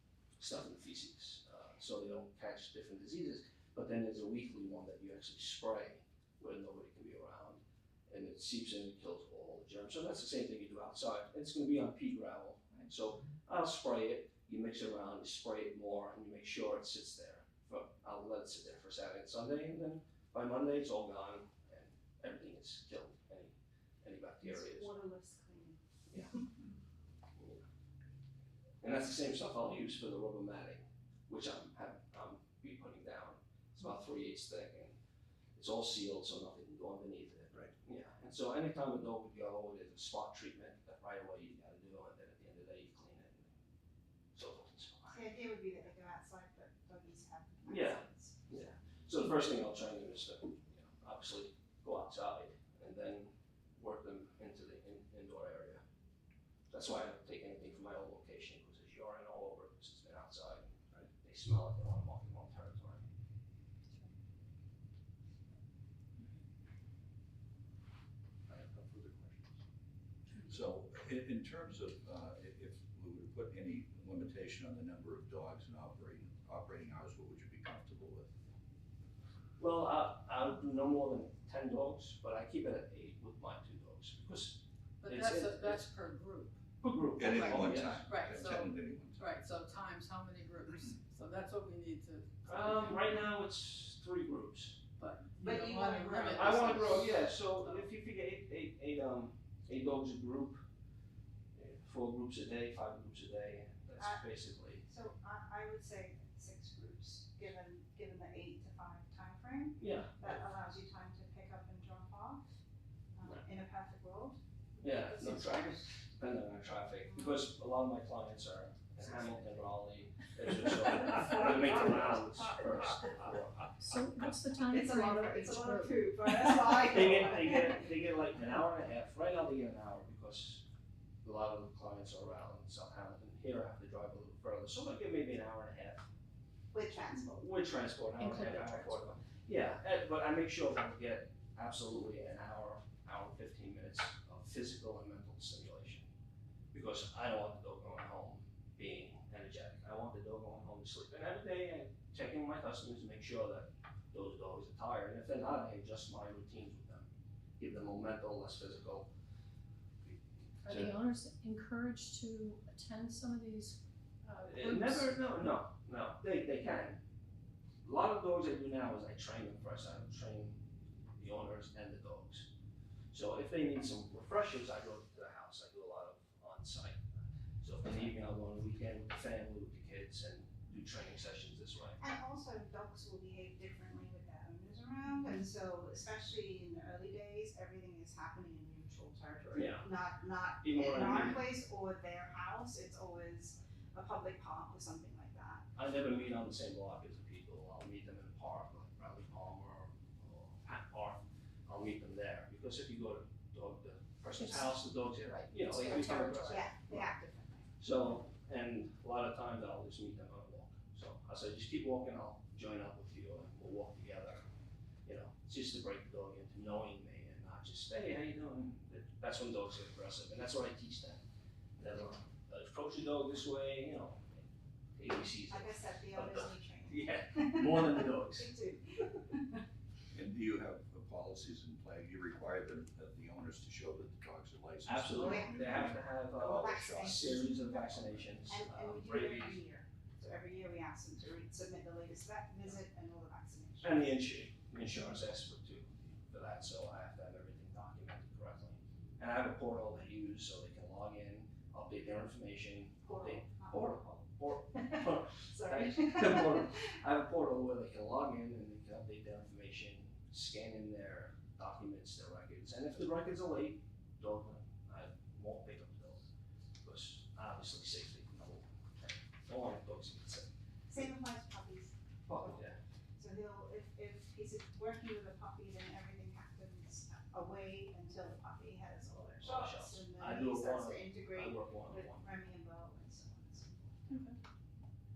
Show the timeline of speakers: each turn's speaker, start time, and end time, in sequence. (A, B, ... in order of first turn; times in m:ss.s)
0:00.4-0:25.0 A
0:24.4-0:25.8 B
0:27.4-0:27.6 A
0:28.8-0:35.0 A
0:35.6-0:43.5 A
0:44.4-0:45.2 A
0:45.1-0:48.4 B
0:47.7-0:55.8 A
0:56.7-1:03.0 A
1:08.5-1:09.5 C
1:10.4-1:18.3 C
1:19.6-1:25.9 A
1:25.0-1:26.6 D
1:26.8-1:28.0 A
1:27.2-1:29.4 C
1:27.8-1:33.1 D
1:32.5-1:34.8 A
1:35.0-1:37.9 D
1:35.4-1:37.0 B
1:36.3-1:40.6 A
1:41.6-1:44.8 A
1:44.0-1:44.3 B
1:44.8-1:52.4 B
1:49.8-1:50.4 A
1:53.2-1:54.4 B
1:54.8-2:03.7 A
1:55.0-1:55.8 B
2:03.8-2:06.5 E
2:04.7-2:07.7 B
2:06.8-2:10.6 A
2:11.2-2:16.1 A
2:16.7-2:17.4 B
2:17.1-2:26.1 A
2:18.2-2:19.0 E
2:26.7-2:39.1 A
2:40.6-2:45.1 E
2:40.7-2:41.0 A
2:44.4-2:47.0 A
2:47.8-2:50.6 A
2:51.2-2:52.5 A
2:53.1-3:02.0 A
3:02.0-3:15.7 B
3:09.5-3:09.9 A
3:10.6-3:11.4 A
3:15.8-3:27.1 A
3:24.4-3:26.7 E
3:26.1-3:27.7 B
3:27.8-3:34.4 A
3:35.1-3:41.2 A
3:41.8-3:48.5 A
3:45.5-3:49.6 B
3:50.1-3:58.2 C
3:54.8-3:59.6 A
3:55.1-4:04.2 B
4:03.8-4:26.3 A
4:13.0-4:16.6 B
4:26.8-4:30.5 A
4:30.9-4:44.2 B
4:32.3-4:32.8 A
4:39.1-4:42.2 A
4:44.1-4:44.4 D